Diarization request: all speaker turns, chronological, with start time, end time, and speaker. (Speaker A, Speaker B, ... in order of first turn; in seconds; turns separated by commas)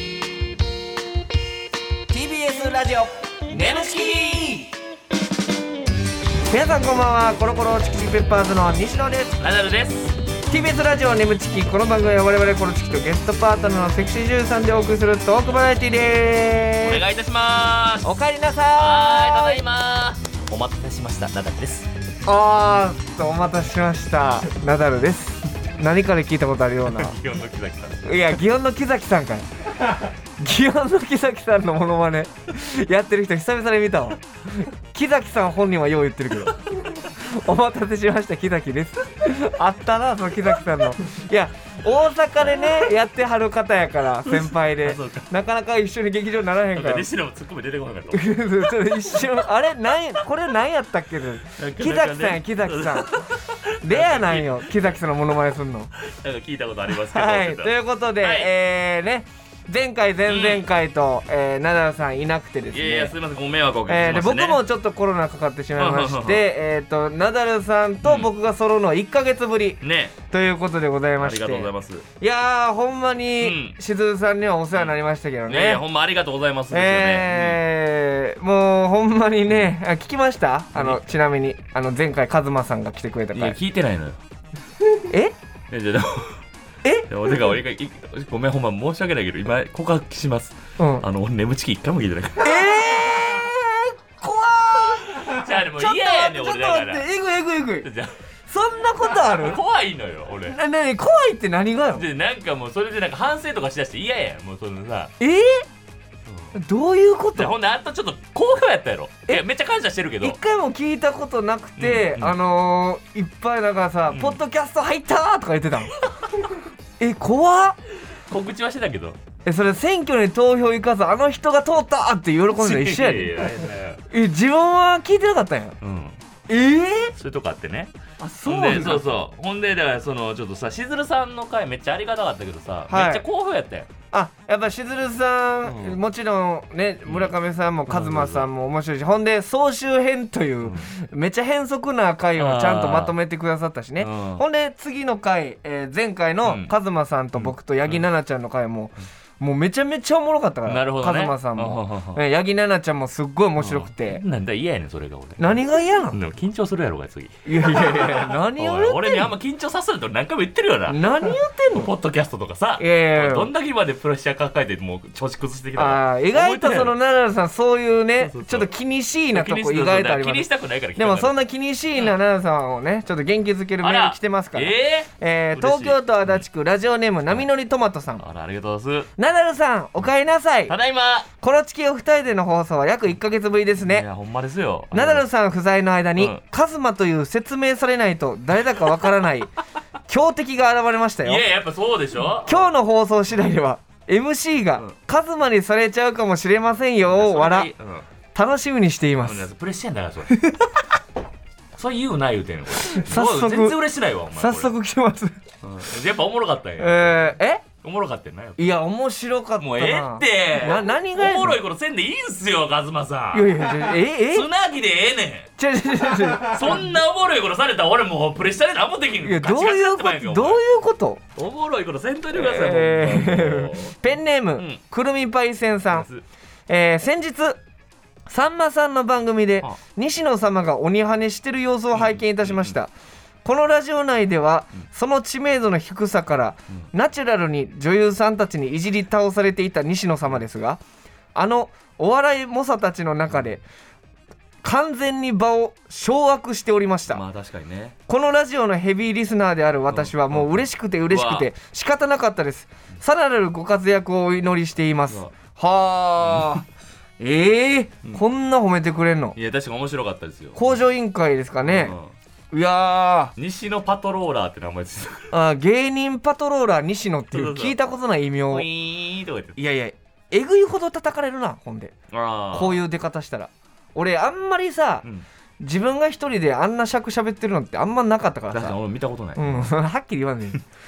Speaker A: 2.1-4.7, Speaker A: 6.5-9.4, Speaker B: 9.4-10.1, Speaker A: 10.5-17.0, Speaker B: 16.8-18.1, Speaker A: 18.0-19.6, Speaker B: 18.8-21.9, Speaker A: 22.2-27.2, Speaker B: 26.9-28.0, Speaker A: 28.0-29.4, Speaker A: 30.4-47.1, Speaker B: 44.2-45.3, Speaker B: 46.7-49.2, Speaker A: 48.1-53.2, Speaker B: 51.6-54.9, Speaker A: 53.8-55.9, Speaker B: 56.0-58.5, Speaker A: 57.0-63.1, Speaker B: 60.3-60.6, Speaker B: 62.7-64.6, Speaker A: 63.9-75.8, Speaker B: 65.8-66.4, Speaker B: 68.0-68.3, Speaker B: 69.8-70.2, Speaker B: 71.2-72.0, Speaker B: 73.4-73.8, Speaker B: 74.7-77.6, Speaker A: 76.7-83.6, Speaker B: 80.7-81.0, Speaker B: 83.3-84.2, Speaker A: 85.1-85.3, Speaker B: 85.7-86.4, Speaker B: 87.1-92.7, Speaker A: 90.8-91.0, Speaker A: 92.4-97.9, Speaker B: 95.3-97.0, Speaker B: 97.8-98.1, Speaker A: 98.5-99.6, Speaker B: 99.2-100.6, Speaker A: 100.5-102.0, Speaker B: 102.0-105.1, Speaker A: 105.2-105.7, Speaker B: 106.3-106.5, Speaker A: 106.5-107.5, Speaker B: 107.3-110.4, Speaker A: 110.2-116.0, Speaker B: 111.8-112.4, Speaker B: 114.1-114.4, Speaker A: 117.0-117.8, Speaker B: 118.3-119.2, Speaker A: 119.4-123.5, Speaker B: 122.6-124.0, Speaker A: 124.1-125.8, Speaker B: 125.8-126.2, Speaker A: 126.5-127.1, Speaker B: 127.2-127.9, Speaker A: 128.2-129.1, Speaker B: 128.4-133.9, Speaker A: 132.9-133.2, Speaker A: 134.1-154.2, Speaker B: 135.7-136.0, Speaker B: 137.1-137.3, Speaker B: 137.9-138.5, Speaker B: 140.6-140.9, Speaker B: 142.4-143.1, Speaker B: 144.0-144.4, Speaker B: 146.4-146.7, Speaker B: 147.4-148.0, Speaker B: 150.7-152.2, Speaker B: 153.6-155.6, Speaker A: 155.4-156.2, Speaker B: 156.1-161.0, Speaker A: 157.4-159.3, Speaker A: 160.9-161.9, Speaker B: 161.7-166.9, Speaker A: 162.8-163.5, Speaker A: 165.8-170.4, Speaker B: 168.2-168.7, Speaker B: 169.3-171.3, Speaker A: 170.9-178.2, Speaker B: 173.8-176.4, Speaker B: 178.2-179.1, Speaker A: 179.2-180.7, Speaker B: 180.7-181.3, Speaker A: 181.4-184.1, Speaker B: 183.8-185.3, Speaker A: 184.9-189.5, Speaker B: 186.2-186.4, Speaker A: 190.1-191.4, Speaker B: 191.2-192.7, Speaker A: 192.4-197.7, Speaker B: 197.1-198.1, Speaker A: 198.3-199.5, Speaker B: 199.2-200.4, Speaker B: 201.8-204.7, Speaker A: 202.9-203.8, Speaker A: 204.4-205.4, Speaker B: 205.6-208.7, Speaker A: 206.8-207.6, Speaker A: 208.6-211.6, Speaker B: 209.6-215.5, Speaker A: 213.3-214.5, Speaker A: 215.6-216.9, Speaker B: 216.5-220.6, Speaker A: 219.2-221.2, Speaker B: 221.3-224.0, Speaker A: 222.3-226.1, Speaker B: 224.6-224.8, Speaker B: 225.9-226.2, Speaker A: 226.7-227.6, Speaker A: 228.3-232.9, Speaker B: 231.9-232.7, Speaker A: 233.4-240.8, Speaker A: 241.3-243.6, Speaker A: 244.6-247.2, Speaker B: 247.1-247.9, Speaker A: 248.1-256.6, Speaker B: 249.9-251.5, Speaker B: 256.2-256.6, Speaker A: 257.2-259.4, Speaker B: 259.4-260.8, Speaker A: 260.5-261.9, Speaker B: 261.6-262.1, Speaker A: 262.5-263.3, Speaker B: 263.4-265.3, Speaker A: 265.3-268.6, Speaker B: 267.3-267.9, Speaker B: 268.5-269.6, Speaker A: 269.6-271.9, Speaker B: 272.1-272.8, Speaker A: 272.5-275.0, Speaker A: 275.6-278.8, Speaker B: 278.5-279.7, Speaker A: 279.4-280.6